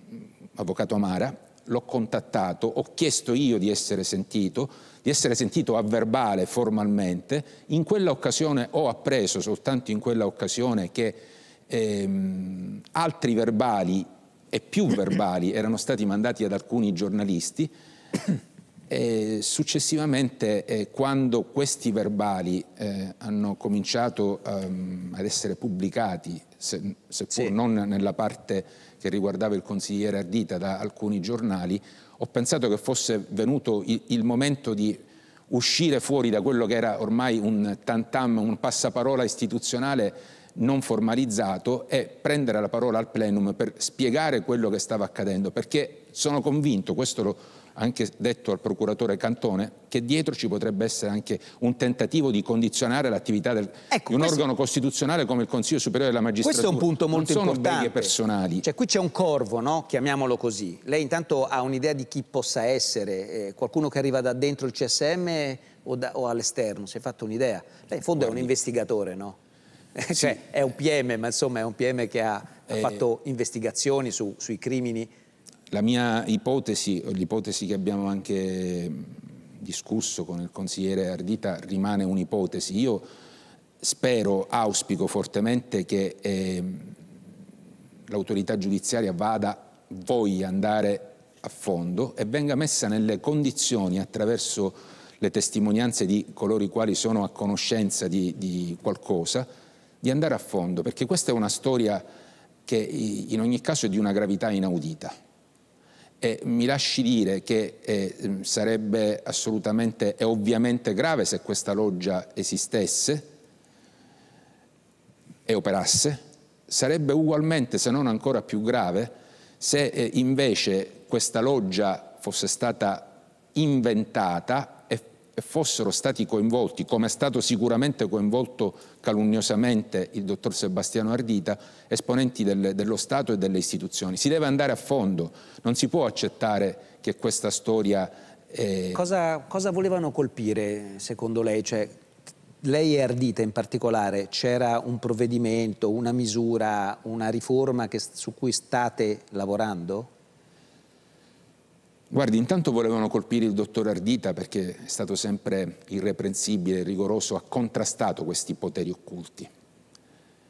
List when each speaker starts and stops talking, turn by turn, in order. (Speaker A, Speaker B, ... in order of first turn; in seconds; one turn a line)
Speaker A: 0.6-17.7
Speaker A: 18.9-58.6
Speaker B: 53.9-54.4
Speaker B: 56.4-69.4
Speaker A: 68.2-68.4
Speaker B: 69.9-75.1
Speaker A: 75.7-83.0
Speaker A: 83.8-86.9
Speaker A: 88.1-99.5
Speaker A: 100.0-102.0
Speaker A: 102.7-105.1
Speaker A: 106.2-113.3
Speaker A: 115.5-139.0
Speaker B: 138.9-141.9
Speaker B: 142.6-150.1
Speaker A: 152.1-159.5